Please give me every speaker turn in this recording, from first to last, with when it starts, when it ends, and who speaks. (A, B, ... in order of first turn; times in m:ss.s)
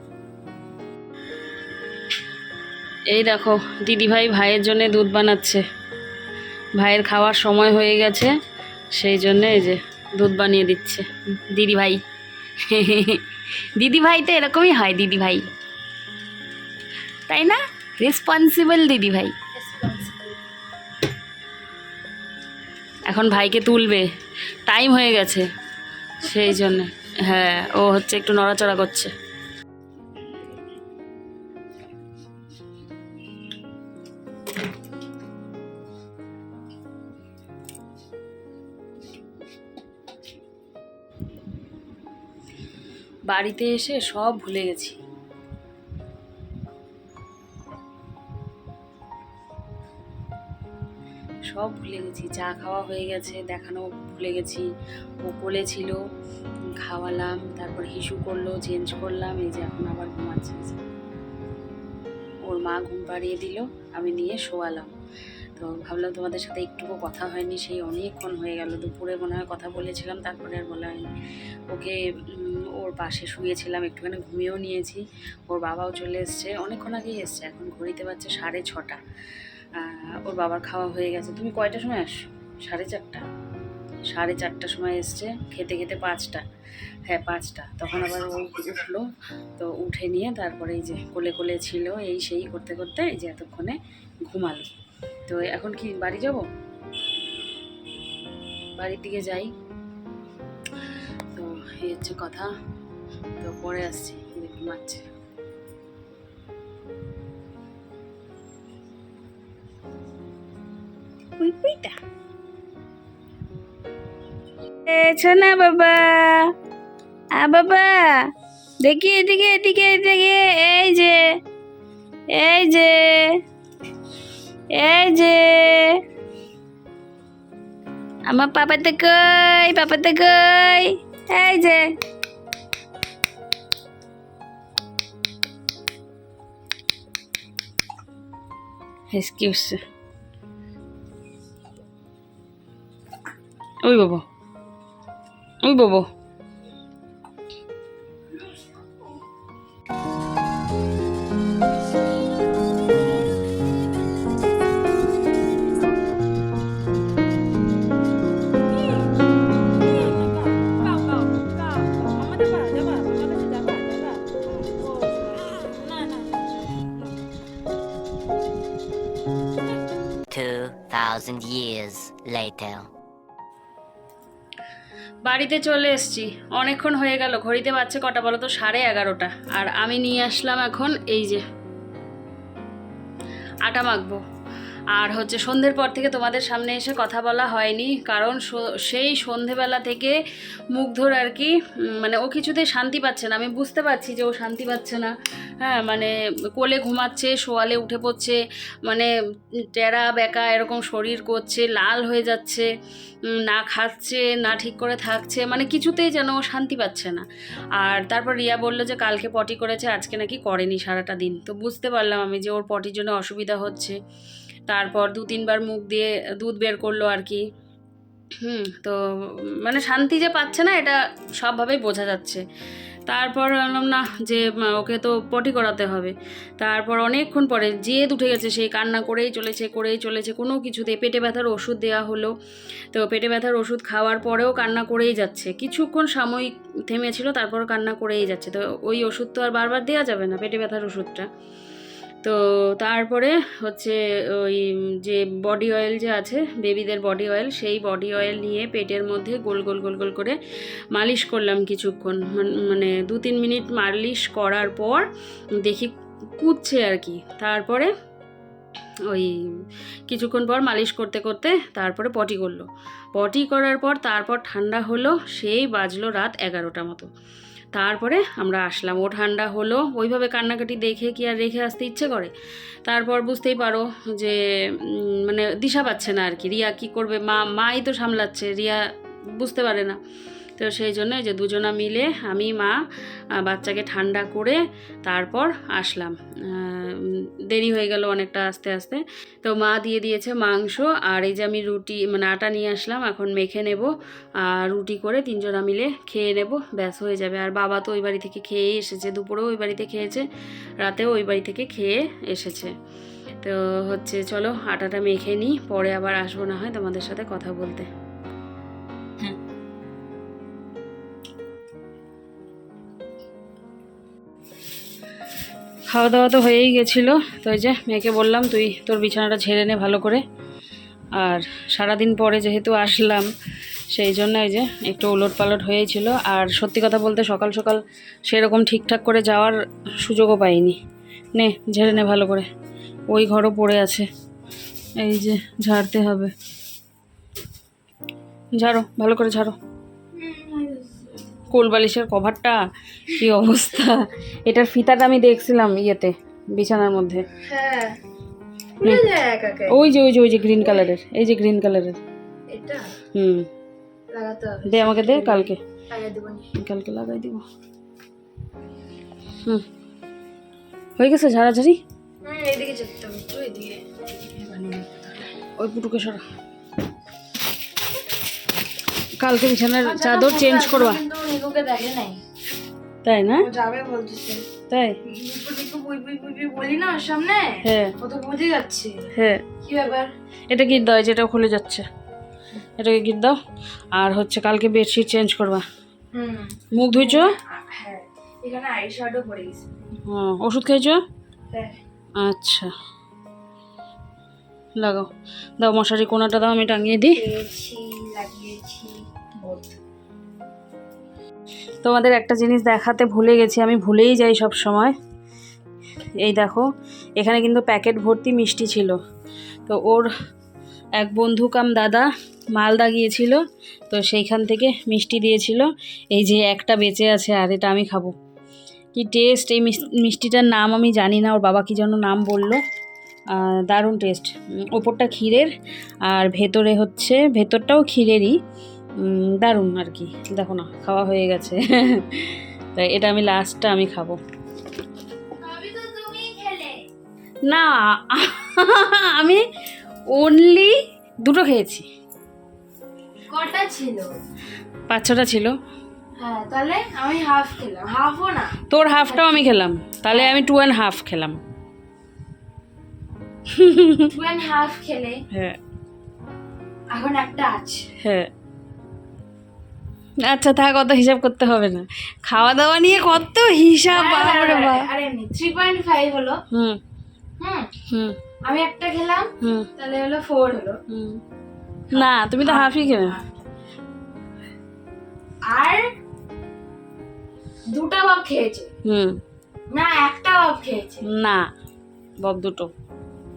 0:03.1-0:05.6 A
0:06.8-0:08.3 A
0:08.9-0:12.0 A
0:12.7-0:13.2 A
0:13.8-0:15.4 A
0:17.3-0:19.3 A
0:19.5-0:20.4 B
0:23.1-0:24.0 A
0:24.7-0:25.4 A
0:26.2-0:29.1 A
0:26.5-0:26.8 B
0:43.3-0:45.0 A
0:51.5-0:54.6 A
0:55.2-0:56.0 A
0:56.8-1:00.8 A
1:02.4-1:04.9 A
1:05.6-1:11.0 A
1:11.7-1:19.0 A
1:19.8-1:23.2 A
1:24.1-1:26.4 A
1:27.0-1:29.0 A
1:29.6-1:34.7 A
1:35.3-1:36.4 A
1:38.8-1:39.5 A
1:41.3-1:42.5 A
1:43.4-1:45.0 A
1:51.4-1:51.9 A
1:54.9-1:56.5 A
1:57.4-1:58.2 A
1:58.8-2:01.2 A
2:02.3-2:03.3 A
2:04.8-2:06.0 A
2:08.3-2:11.8 A
2:19.1-2:19.8 A
2:23.8-2:24.2 A
2:25.6-2:26.0 A
2:50.3-2:52.9 C
2:55.2-3:01.4 A
3:03.6-3:04.2 A
3:04.9-3:10.2 A
3:10.7-3:19.1 A
3:19.7-3:22.7 A
3:23.4-3:27.2 A
3:27.8-3:33.9 A
3:34.7-3:37.4 A
3:38.4-3:39.0 A
3:39.6-3:42.4 A
3:43.1-3:52.3 A
3:52.9-4:01.2 A
4:02.2-4:10.3 A
4:10.9-4:15.0 A
4:15.6-4:17.9 A
4:20.1-4:27.1 A
4:27.7-4:32.3 A
4:32.8-4:38.8 A
4:39.4-4:40.0 A
4:40.6-4:42.7 A
4:43.4-4:53.9 A
4:54.4-5:00.2 A
5:00.8-5:02.7 A
5:03.4-5:07.9 A
5:15.9-5:20.2 A
5:21.2-5:23.3 A
5:23.9-5:30.8 A
5:31.3-5:32.4 A
5:33.1-5:34.0 A
5:35.0-5:36.3 A
5:38.6-5:39.6 A
5:40.1-5:41.1 B
5:41.5-5:44.0 A
5:44.5-5:47.2 A
5:47.4-5:48.0 B
5:48.8-5:49.8 B
5:49.7-5:52.0 A
5:52.5-5:52.9 B
5:53.1-5:53.4 A
5:54.1-5:56.4 B
5:54.7-5:55.6 A
5:56.6-5:57.4 A
6:01.0-6:01.8 A
6:02.2-6:05.3 B
6:05.6-6:06.2 A
6:09.2-6:11.0 A
6:09.8-6:12.2 B
6:13.0-6:13.5 A
6:13.4-6:14.5 B
6:14.7-6:14.9 A
6:15.1-6:19.1 B
6:17.6-6:17.9 A
6:19.1-6:19.4 A
6:19.6-6:20.1 B
6:20.5-6:21.8 A
6:22.8-6:23.4 A
6:23.9-6:25.6 A
6:26.1-6:29.9 B
6:26.8-6:27.3 A
6:30.1-6:31.0 A
6:31.5-6:31.8 B
6:32.2-6:32.7 A
6:34.8-6:35.1 A
6:35.6-6:37.2 A
6:37.1-6:39.8 B
6:41.8-6:44.9 A
6:46.2-6:46.6 A
6:47.2-6:49.0 A
6:49.6-6:50.1 A
6:51.0-6:53.4 A
6:53.9-6:58.1 A
6:58.9-7:02.6 A
7:03.3-7:05.5 A
7:06.1-7:08.3 A
7:09.0-7:14.2 A
7:15.4-7:16.8 B
7:17.5-7:19.4 A
7:20.1-7:20.7 A
7:21.2-7:21.8 A
7:23.3-7:24.2 B
7:24.9-7:25.5 A
7:26.2-7:29.4 B
7:28.7-7:31.4 A
7:30.1-7:30.4 B
7:33.5-7:34.1 A
7:34.1-7:35.2 B
7:35.3-7:35.6 A
7:36.9-7:37.9 B
7:38.0-7:38.3 A
7:40.2-7:44.8 A
7:43.9-7:46.4 B
7:46.5-7:46.8 A
7:47.4-7:47.7 B
7:48.5-7:50.8 B
7:50.9-7:51.2 A
7:51.9-7:53.1 A
7:51.9-7:53.2 B
7:55.4-7:55.8 B
7:57.7-7:58.7 B
7:58.8-7:59.2 A
7:59.7-8:01.0 B
8:01.1-8:01.4 A
8:02.2-8:02.7 A